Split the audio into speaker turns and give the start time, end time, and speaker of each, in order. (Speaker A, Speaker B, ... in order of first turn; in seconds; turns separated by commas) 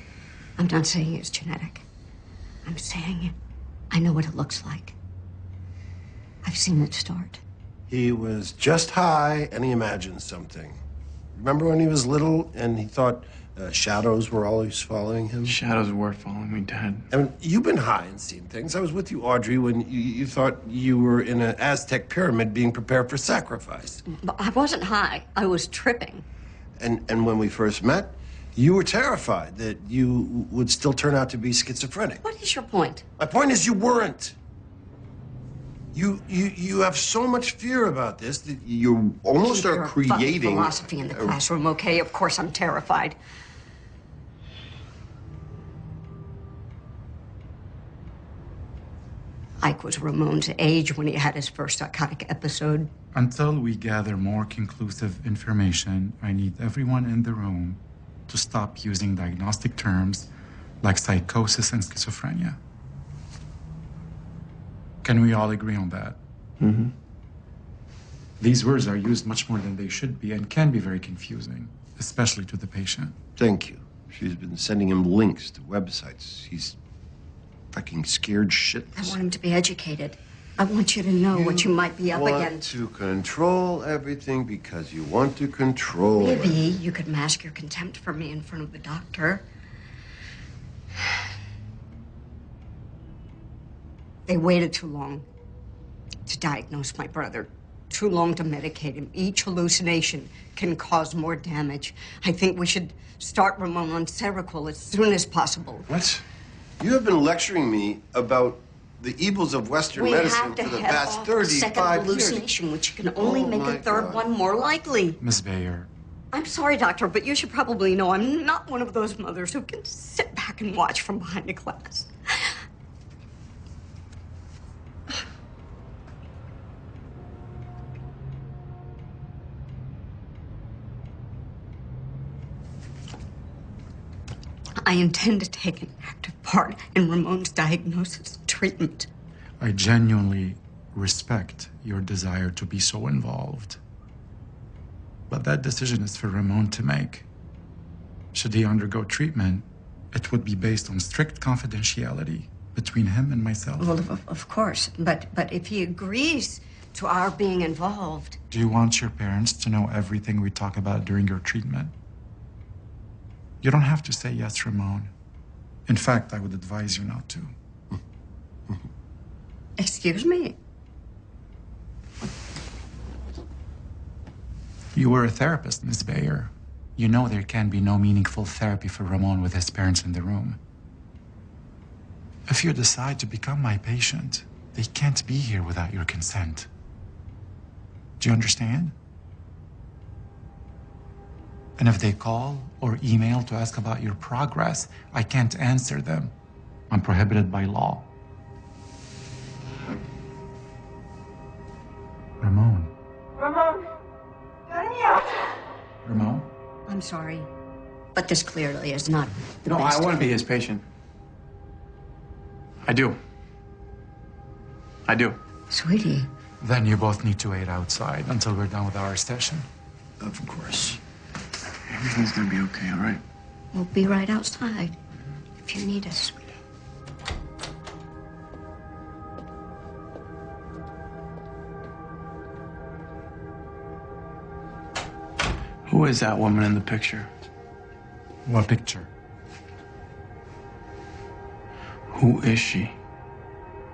Speaker A: 0.6-1.8, Speaker A: 2.6-3.3, Speaker A: 3.9-5.0, Speaker A: 6.4-7.4, Speaker B: 7.9-10.8, Speaker B: 11.3-15.6, Speaker C: 15.4-17.1, Speaker B: 17.1-24.0, Speaker A: 24.1-26.2, Speaker B: 26.8-32.2, Speaker A: 32.2-33.0, Speaker B: 33.2-34.4, Speaker B: 35.9-41.4, Speaker A: 39.4-43.2, Speaker A: 49.6-52.9, Speaker D: 53.1-60.3, Speaker D: 60.8-62.6, Speaker D: 65.0-66.2, Speaker C: 66.6-66.9, Speaker D: 68.4-73.2, Speaker B: 73.4-76.8, Speaker B: 77.7-79.2, Speaker A: 78.9-82.7, Speaker B: 81.3-86.6, Speaker A: 86.2-89.5, Speaker A: 94.3-95.2, Speaker A: 96.2-105.9, Speaker B: 105.9-106.2, Speaker B: 106.8-112.4, Speaker A: 109.9-115.2, Speaker B: 113.2-114.2, Speaker D: 115.2-115.9, Speaker A: 116.3-122.5, Speaker A: 134.8-139.1, Speaker D: 139.6-143.8, Speaker D: 145.3-147.3, Speaker D: 148.3-153.9, Speaker A: 153.8-158.4, Speaker D: 158.5-161.9, Speaker D: 163.6-165.1, Speaker D: 165.9-167.5, Speaker A: 169.8-170.6, Speaker D: 174.9-180.6, Speaker D: 182.5-186.7, Speaker D: 188.2-188.9, Speaker D: 191.8-196.3, Speaker D: 196.9-198.1, Speaker D: 202.4-202.9, Speaker D: 206.0-206.5, Speaker A: 206.9-207.5, Speaker A: 208.1-210.3, Speaker C: 209.7-210.8, Speaker C: 212.8-213.2, Speaker C: 215.1-215.4, Speaker A: 215.7-216.3, Speaker D: 216.6-219.7, Speaker B: 220.2-221.0, Speaker C: 221.9-223.2, Speaker A: 223.7-224.9, Speaker A: 225.6-226.5, Speaker C: 235.9-237.3, Speaker D: 238.4-239.1, Speaker C: 242.1-242.9